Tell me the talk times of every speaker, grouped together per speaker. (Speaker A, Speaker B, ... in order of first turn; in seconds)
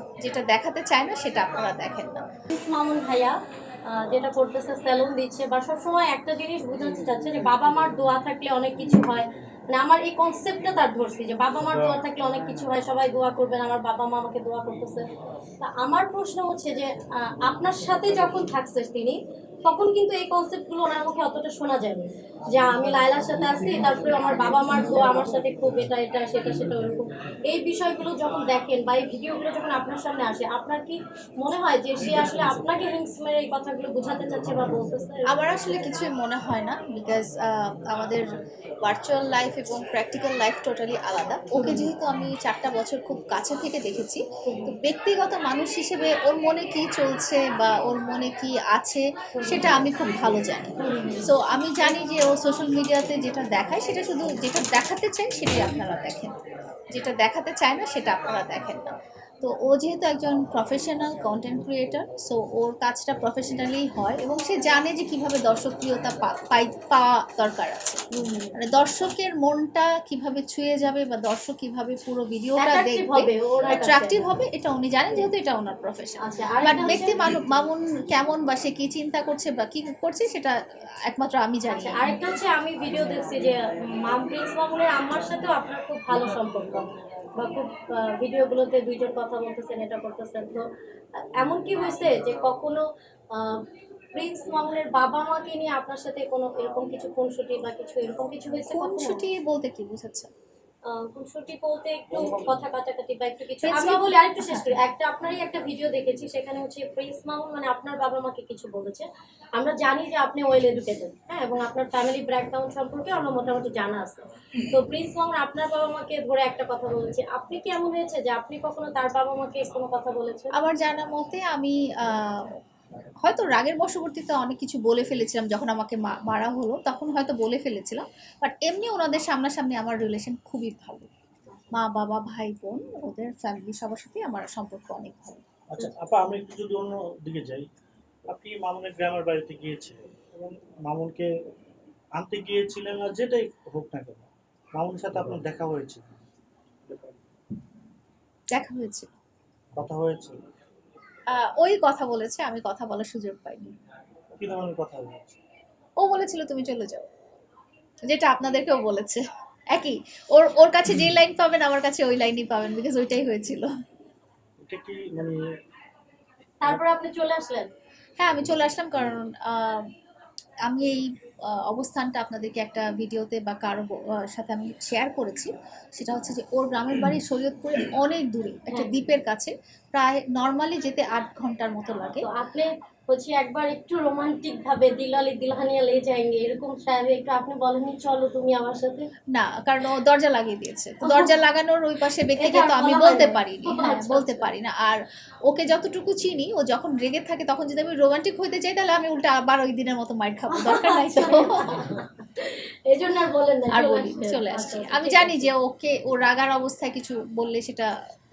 Speaker A: 0.2-2.2, 35.3-38.2, 38.8-50.7, 51.2-56.3, 56.9-68.0, 68.6-80.5, 81.1-82.2, 98.7-100.3, 103.6-104.8, 120.5-122.5, 123.2-131.1, 131.7-135.4, 148.5-149.1, 151.3-153.7, 156.0-157.1, 158.0-163.7, 168.2-169.8, 170.7-182.3, 189.3-201.9, 203.7-207.9
Speaker B: 2.5-15.0, 15.6-35.3, 41.5-41.9, 44.5-44.7, 49.4-49.8, 50.8-51.3, 68.1-68.5, 72.6-74.2, 76.2-77.4, 81.7-90.6, 91.4-92.8, 93.3-93.6, 94.1-99.2, 100.9-120.5, 166.6-167.7, 178.7-179.1, 182.2-189.1, 191.0-191.3, 192.4-194.5, 200.6-205.5
Speaker C: 102.1-102.5, 135.7-137.6, 138.3-141.3, 142.2-146.1, 149.8-150.3, 154.4-155.4, 164.6-165.4